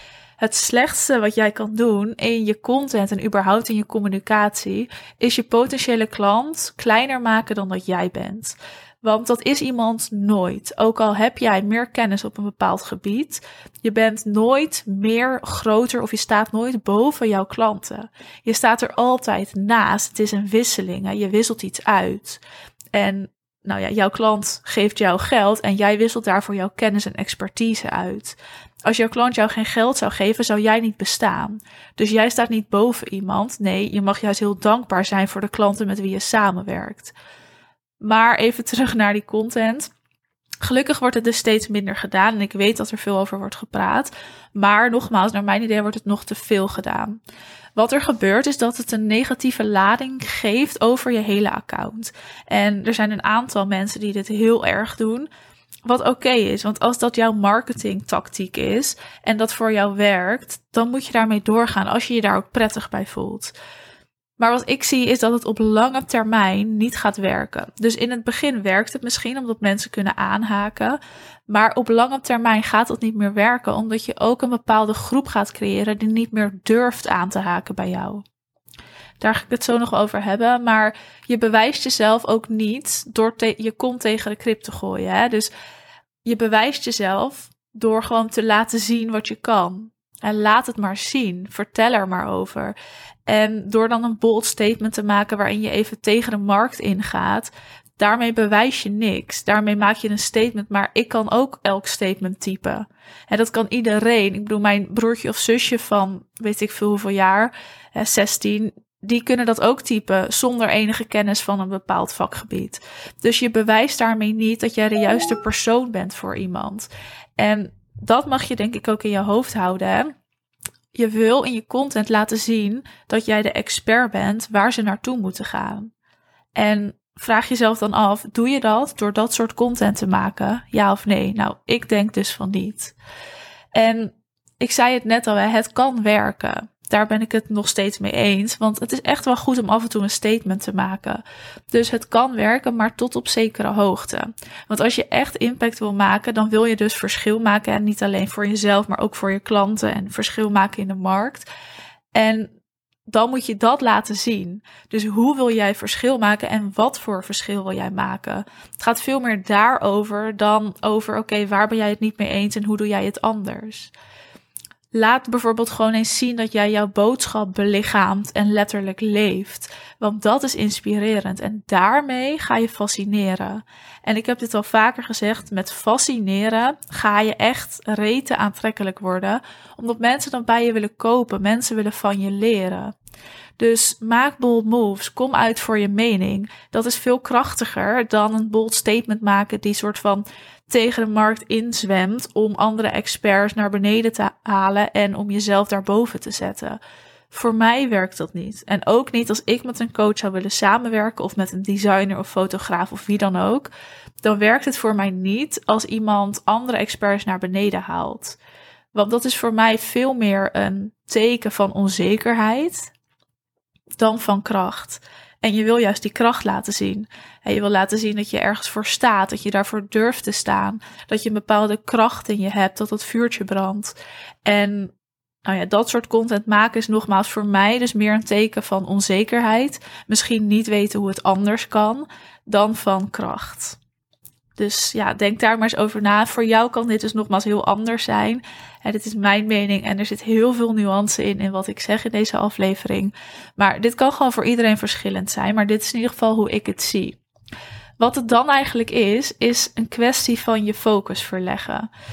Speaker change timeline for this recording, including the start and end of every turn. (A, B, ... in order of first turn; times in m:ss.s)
0:00.4-0:22.4 A
0:22.9-0:37.1 A
0:38.0-0:39.9 A
0:40.6-0:47.2 A
0:47.8-0:55.3 A
0:55.9-1:03.5 A
1:04.4-1:18.2 A
1:19.2-1:25.5 A
1:26.2-1:32.8 A
1:33.3-2:00.2 A
2:00.9-2:05.9 A
2:06.6-2:13.0 A
2:13.7-2:31.5 A
2:32.1-2:32.5 A
2:33.1-2:43.9 A
2:44.9-3:03.0 A
3:03.6-3:16.8 A
3:17.3-3:23.7 A
3:24.2-3:28.4 A
3:28.9-3:32.9 A
3:34.0-3:43.9 A
3:44.4-3:44.9 A
3:45.4-3:53.8 A
3:54.6-4:07.2 A
4:08.0-4:11.9 A